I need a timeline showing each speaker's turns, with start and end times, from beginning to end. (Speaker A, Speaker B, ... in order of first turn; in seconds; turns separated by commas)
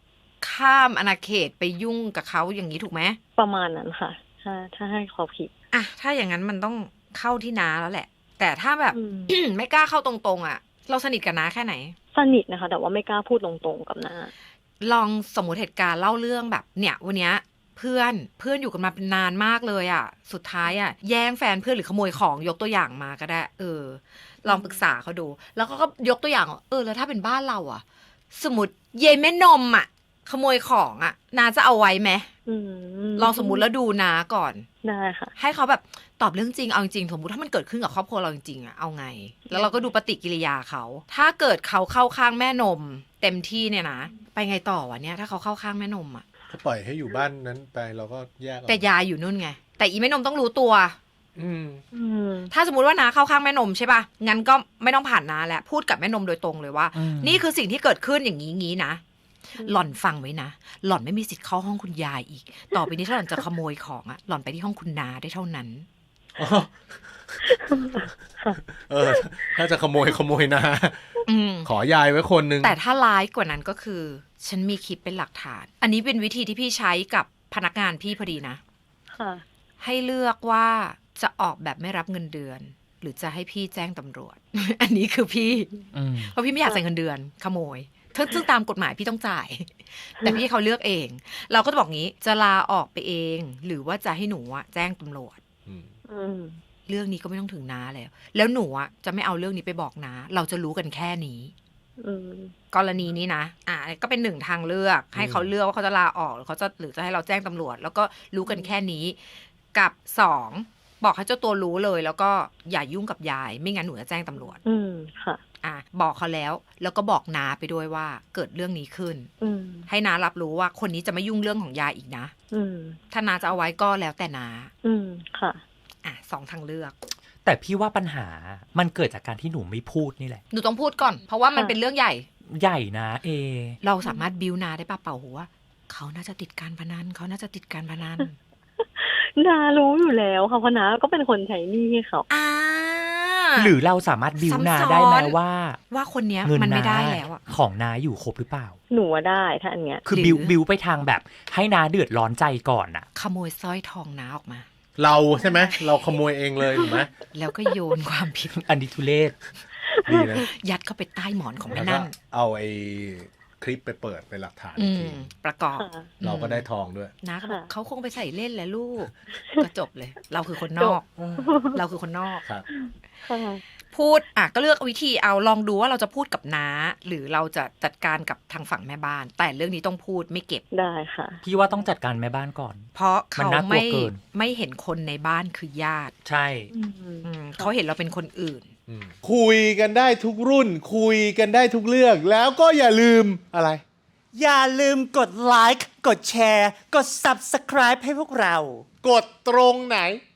Speaker A: 0.4-3.2, Speaker B: 3.4-5.5, Speaker A: 5.7-11.9, Speaker B: 8.9-9.3, Speaker B: 12.1-14.3, Speaker A: 14.8-32.3, Speaker B: 24.4-24.8, Speaker B: 32.5-33.7, Speaker A: 33.2-34.7, Speaker B: 34.8-35.3, Speaker A: 35.4-46.2, Speaker B: 39.5-39.8, Speaker C: 46.5-48.9, Speaker A: 48.7-51.0, Speaker C: 51.4-51.8, Speaker B: 51.9-52.5, Speaker A: 52.5-65.9, Speaker D: 56.9-57.4, Speaker B: 59.6-60.0, Speaker C: 66.3-72.7, Speaker B: 67.4-69.5, Speaker A: 71.2-71.7, Speaker A: 72.6-78.6, Speaker B: 79.1-79.4, Speaker A: 79.8-95.4, Speaker D: 85.9-86.3, Speaker C: 95.7-95.9, Speaker B: 96.1-96.6, Speaker A: 96.9-101.5, Speaker B: 102.0-102.5, Speaker A: 102.7-109.2, Speaker C: 105.1-105.5, Speaker B: 108.5-108.7, Speaker A: 109.7-114.6, Speaker B: 114.6-115.4, Speaker A: 115.6-119.3, Speaker B: 119.4-119.9, Speaker A: 119.9-122.3, Speaker B: 122.5-123.0, Speaker A: 123.1-124.7, Speaker B: 124.8-125.6, Speaker A: 126.0-127.0, Speaker D: 127.4-130.4, Speaker A: 130.5-132.2, Speaker B: 131.5-131.8, Speaker D: 132.5-133.8, Speaker A: 133.8-138.3, Speaker B: 138.8-142.3, Speaker A: 142.3-143.7, Speaker D: 143.6-145.8, Speaker A: 144.4-145.3, Speaker A: 145.9-147.4, Speaker D: 146.4-148.8, Speaker B: 148.9-150.0, Speaker D: 150.0-153.1, Speaker A: 150.1-150.5, Speaker A: 153.1-154.7, Speaker C: 155.0-157.1, Speaker A: 155.4-155.9, Speaker A: 157.3-158.5, Speaker D: 158.5-159.4, Speaker B: 159.8-160.3, Speaker C: 160.1-160.5, Speaker A: 160.4-162.1, Speaker C: 161.7-165.3, Speaker A: 164.8-166.7, Speaker B: 165.7-166.1, Speaker C: 166.2-167.1, Speaker A: 167.2-171.1, Speaker B: 167.4-167.7, Speaker B: 169.4-169.7, Speaker B: 170.8-171.8, Speaker C: 171.2-171.7, Speaker A: 171.7-172.4, Speaker B: 172.7-173.6, Speaker A: 173.9-180.6, Speaker B: 180.7-181.8, Speaker D: 181.4-184.2, Speaker A: 182.9-186.1, Speaker D: 186.2-186.7, Speaker B: 186.7-187.7, Speaker A: 187.2-188.7, Speaker C: 188.9-193.8, Speaker E: 194.3-198.8, Speaker C: 199.0-200.2